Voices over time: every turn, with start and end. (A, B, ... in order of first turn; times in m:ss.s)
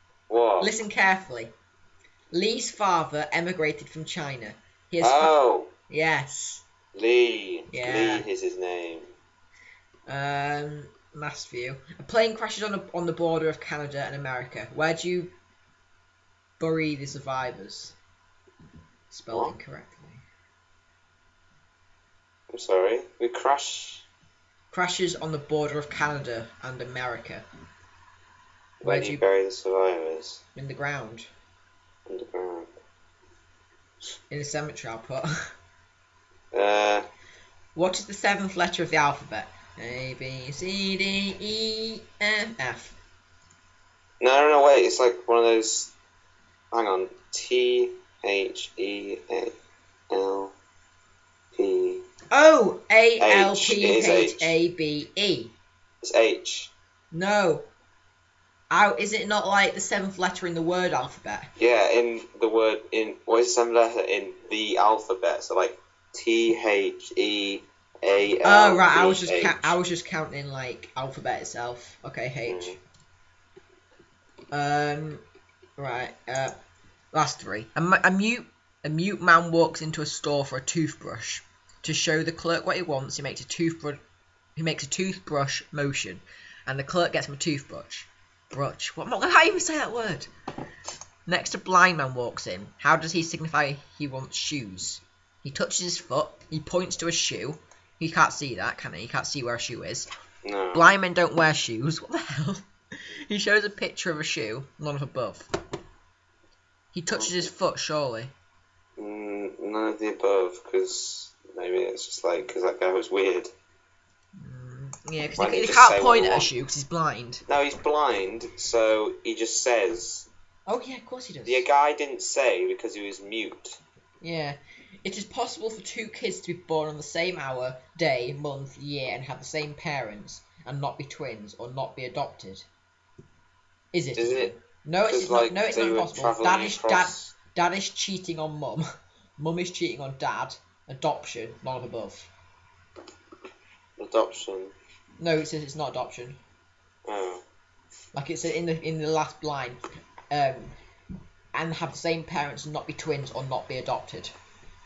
0:00.3-0:00.8 A
0:00.6-0:01.5 B
0:02.3-0:05.4 B
0:05.0-0:05.7 A
0:05.9-0:06.6 B
0:06.9-0:09.1 A
0:07.7-0:08.3 B
0:10.1-0:15.3 B
0:16.6-0:18.0 B
0:19.1-0:20.2 B
0:22.5-0:24.0 A
0:24.7-0:27.4 B
0:28.8-0:30.4 A
0:28.8-0:29.2 B
0:30.6-0:31.3 B
0:32.1-0:32.7 A
0:34.3-0:35.3 B
0:36.5-0:37.1 A
0:37.8-0:43.0 B
0:44.2-0:45.9 A
0:46.7-0:49.5 A
0:50.1-0:50.5 A
0:51.5-0:52.0 A
0:52.3-0:55.5 B
0:53.2-0:54.6 A
0:56.0-0:56.7 A
0:57.1-0:57.7 B
0:58.7-1:01.5 B
1:01.6-1:09.8 A
1:08.4-1:12.8 B
1:12.5-1:12.8 A
1:14.5-1:15.2 B
1:15.8-1:16.5 B
1:17.1-1:24.0 B
1:24.6-1:30.3 B
1:31.3-1:40.1 B
1:40.4-1:40.9 A
1:40.7-1:42.6 B
1:43.3-1:45.5 B
1:46.9-1:48.3 B
1:47.1-1:47.5 A
1:49.0-1:53.5 A
1:54.4-1:57.4 B
1:55.4-1:56.5 A
1:57.5-2:00.3 A
2:00.7-2:01.6 B
2:01.5-2:03.8 A
2:04.2-2:12.7 B
2:13.9-2:18.9 B
2:14.2-2:14.5 A
2:15.1-2:17.3 A
2:19.4-2:22.3 B
2:24.0-2:24.7 A
2:25.2-2:26.4 B
2:27.1-2:27.4 A
2:28.1-2:29.8 B
2:30.3-2:30.7 B
2:31.5-2:34.3 B